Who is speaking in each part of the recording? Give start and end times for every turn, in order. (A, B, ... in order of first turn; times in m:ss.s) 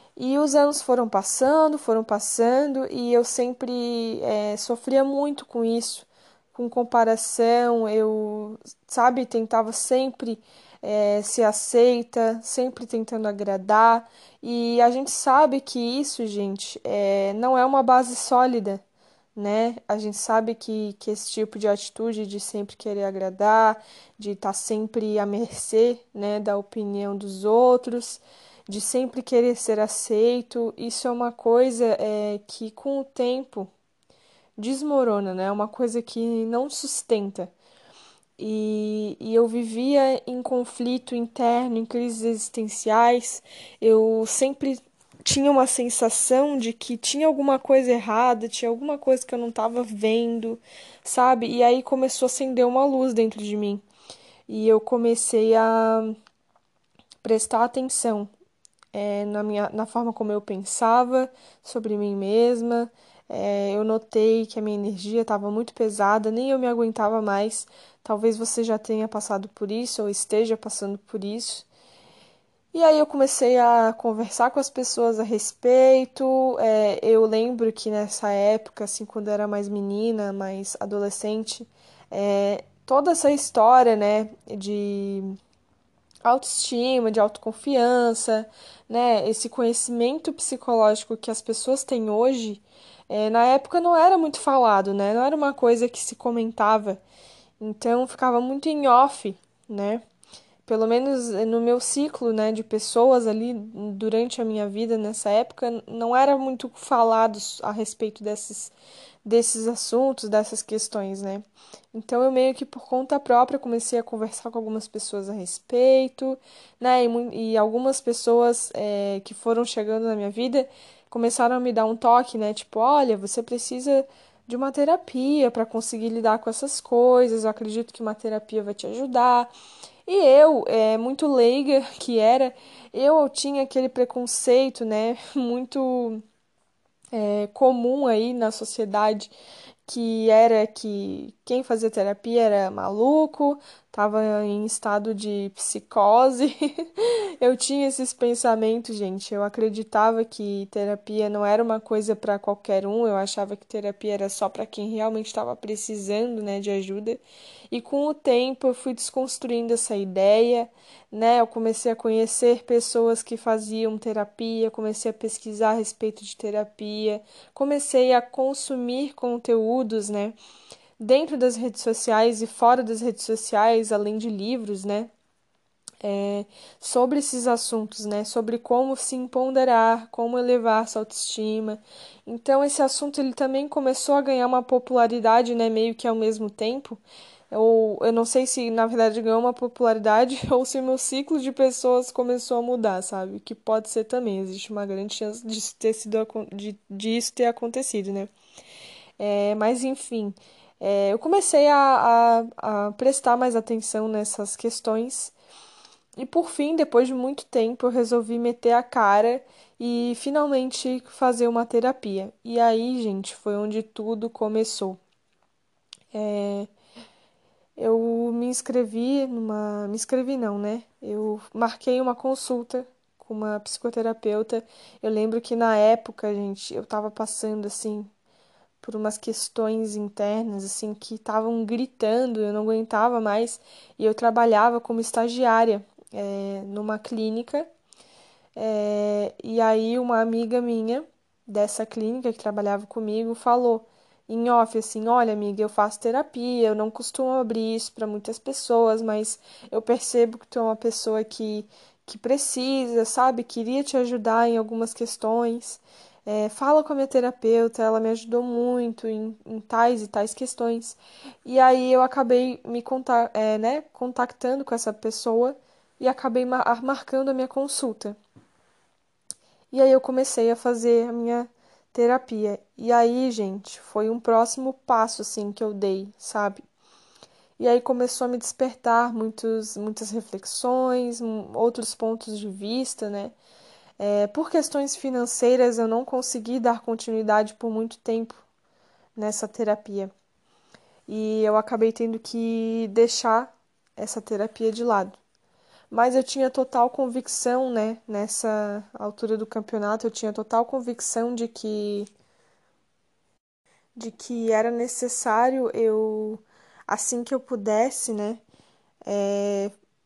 0:00.2-0:18.8 A
0:19.3-0:33.7 A
0:34.6-0:37.5 A
0:38.4-0:53.8 A
0:54.5-0:56.2 A
0:57.2-0:58.3 A
0:58.9-1:11.7 A
1:12.7-1:25.3 A
1:26.2-1:37.0 A
1:37.6-1:40.0 A
1:40.6-1:48.7 A
1:49.2-2:09.5 A
2:10.0-2:16.2 A
2:17.1-2:19.3 A
2:19.8-2:50.4 A
2:51.0-2:55.1 A
2:56.0-3:18.3 A
3:19.2-3:25.3 A
3:26.2-3:35.0 A
3:36.1-3:36.7 A
3:37.8-3:48.1 A
3:48.8-3:57.7 A
3:58.6-4:28.2 A
4:29.7-4:36.6 A
4:37.6-4:43.3 A
4:44.0-4:48.4 A
4:49.2-4:50.1 A
4:51.1-4:55.2 A
4:55.9-5:02.1 A
5:04.0-5:08.4 A
5:09.0-5:09.7 A